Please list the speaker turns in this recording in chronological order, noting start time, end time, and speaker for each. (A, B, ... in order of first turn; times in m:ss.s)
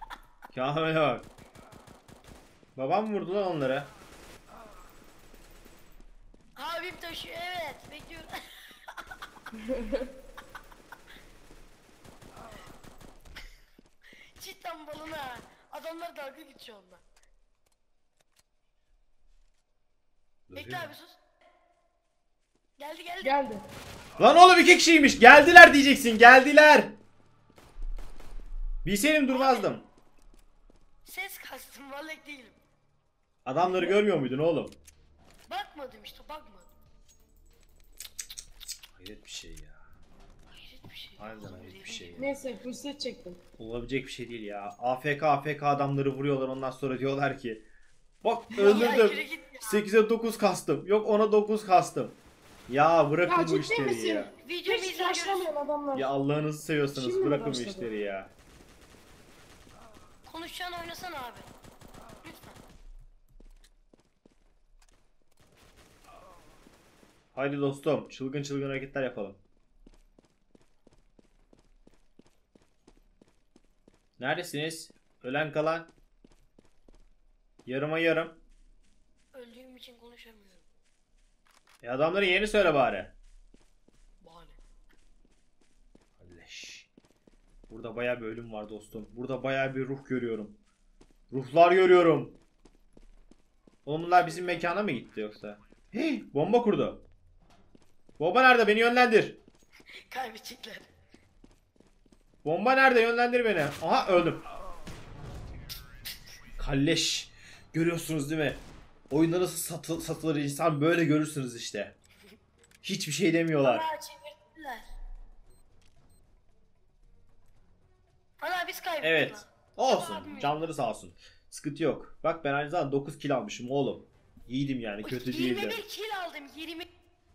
0:00.5-0:01.3 A
0:02.8-0:03.9 A
0:06.6-0:09.0 B
0:09.7-0:10.0 C
0:14.4-0:17.0 B
0:20.5-0:20.9 A
0:20.5-0:21.2 B
0:22.8-0:23.4 B
0:23.2-0:23.6 C
0:24.2-0:27.0 A
0:28.8-0:29.8 A
0:29.3-0:29.7 B
0:31.0-0:32.6 B
0:33.4-0:34.8 A
0:33.6-0:34.0 C
0:35.5-0:36.7 B
0:39.0-0:39.8 A
0:40.5-0:42.6 B
0:41.2-0:42.3 A
0:42.2-0:43.4 C
0:43.6-0:47.6 A
0:48.2-0:52.2 A
0:48.5-0:49.0 C
0:48.6-0:49.8 B
0:52.7-0:54.3 A
0:53.3-0:56.1 C
0:54.4-0:55.5 B
0:56.0-0:58.3 A
0:56.9-0:58.0 C
1:00.3-1:01.5 B
1:02.2-1:02.6 B
1:07.3-1:09.4 A
1:14.2-1:15.9 A
1:17.7-1:18.4 A
1:19.3-1:20.6 B
1:21.8-1:23.1 A
1:24.2-1:24.6 B
1:26.2-1:26.9 A
1:27.7-1:30.6 A
1:31.3-1:32.4 A
1:33.9-1:37.0 A
1:34.1-1:34.8 B
1:38.2-1:39.4 A
1:40.1-1:40.9 B
1:42.4-1:44.4 A
1:46.6-1:51.9 A
1:52.8-1:53.8 A
1:53.6-1:54.8 B
1:58.4-2:00.6 B
1:59.0-2:05.8 A
2:05.0-2:06.9 B